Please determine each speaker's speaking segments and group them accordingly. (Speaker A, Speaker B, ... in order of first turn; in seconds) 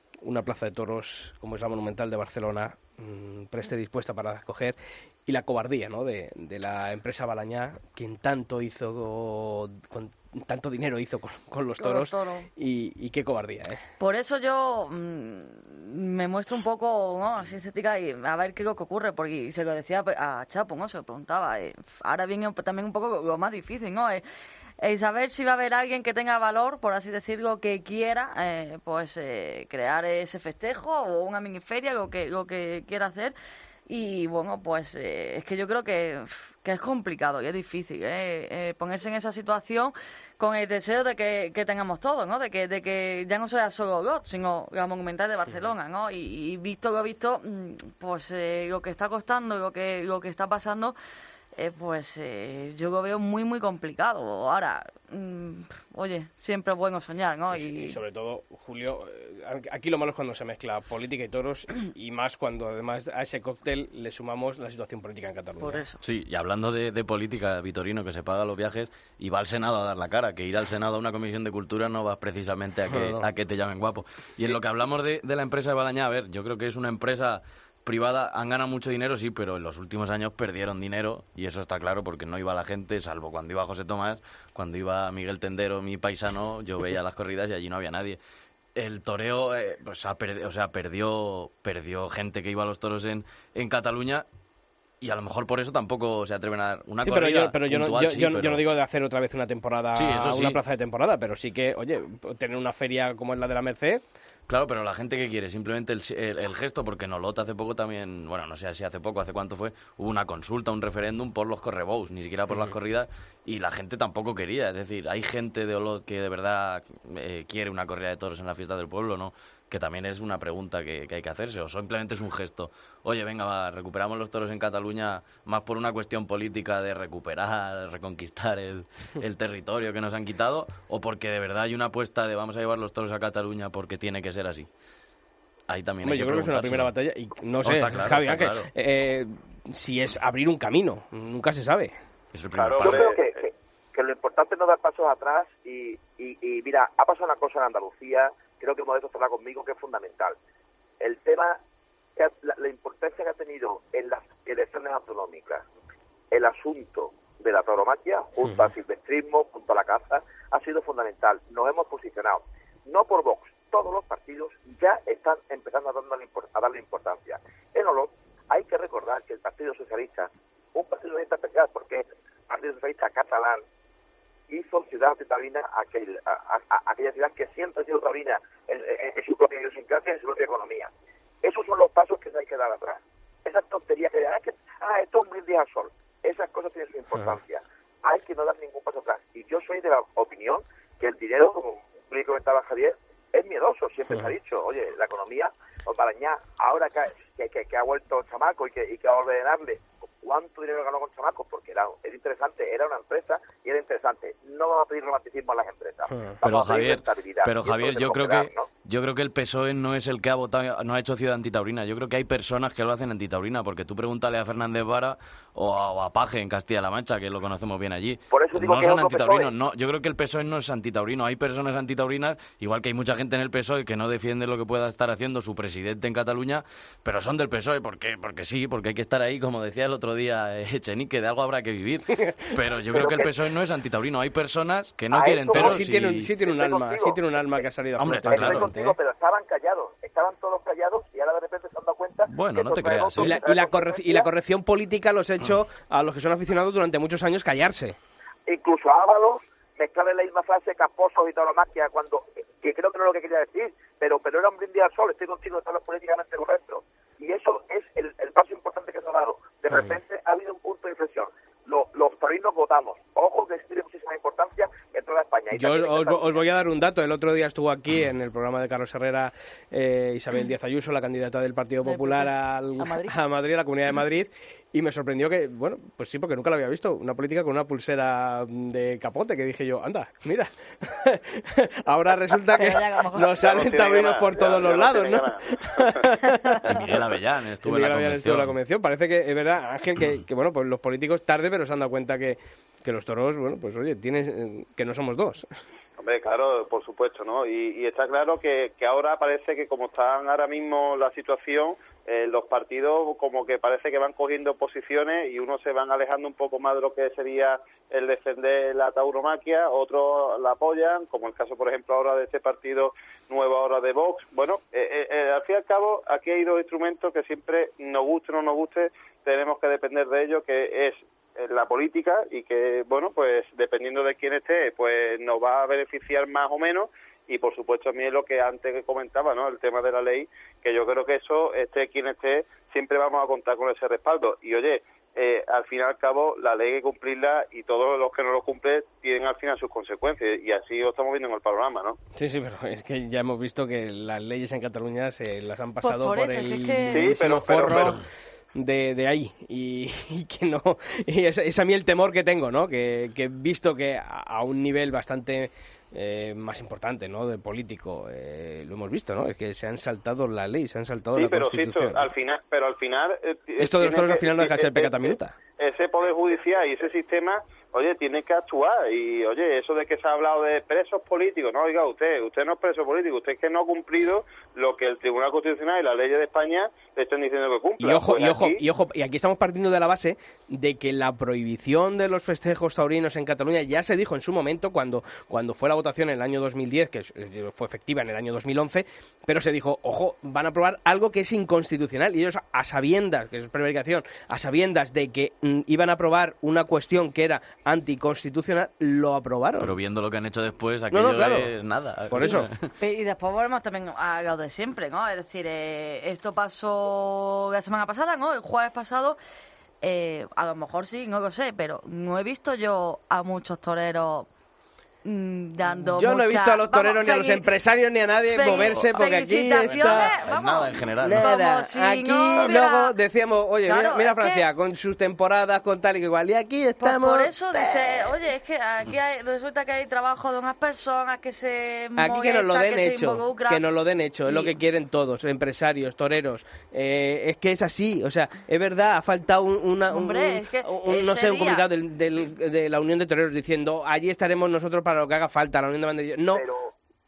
Speaker A: 0.2-13.8, 57.5-65.8, 72.9-73.3, 97.0-104.0, 136.0-141.9, 206.1-206.4, 232.3-233.1, 235.5-238.9, 243.2-248.0, 265.5-287.1, 287.6-295.6, 342.1-362.1, 363.6-365.3, 377.8-399.8, 400.9-401.6, 402.1-402.5, 415.8-420.2, 421.0-428.1, 432.0-446.4
Speaker B: 11.8-12.5, 14.0-24.2, 24.8-33.3, 33.9-50.9, 51.5-58.0, 65.6-66.0, 271.8-273.1, 282.5-283.4, 345.8-347.2, 402.2-409.2, 409.8-414.3, 415.0-417.5, 418.3-422.9, 423.6-424.4, 426.8-433.6, 434.3-434.5, 439.9-441.6
Speaker C: 66.0-88.2, 88.8-94.2, 95.0-98.6, 100.0-100.6, 104.5-134.7, 135.7-136.9, 137.6-138.7, 142.3-143.2, 206.4-236.3, 238.0-238.7, 242.3-243.4, 286.6-288.5, 399.6-402.7, 418.5-418.8, 419.5-421.2
Speaker D: 142.6-143.4, 283.4-286.0, 296.0-342.0, 346.9-348.0, 361.1-378.6
Speaker E: 142.8-150.4, 151.0-151.6, 152.2-155.6, 156.3-173.6, 174.5-180.9, 181.4-208.7, 218.3-219.5, 232.9-233.3, 235.1-237.6, 238.2-244.3, 248.5-266.4, 446.3-446.7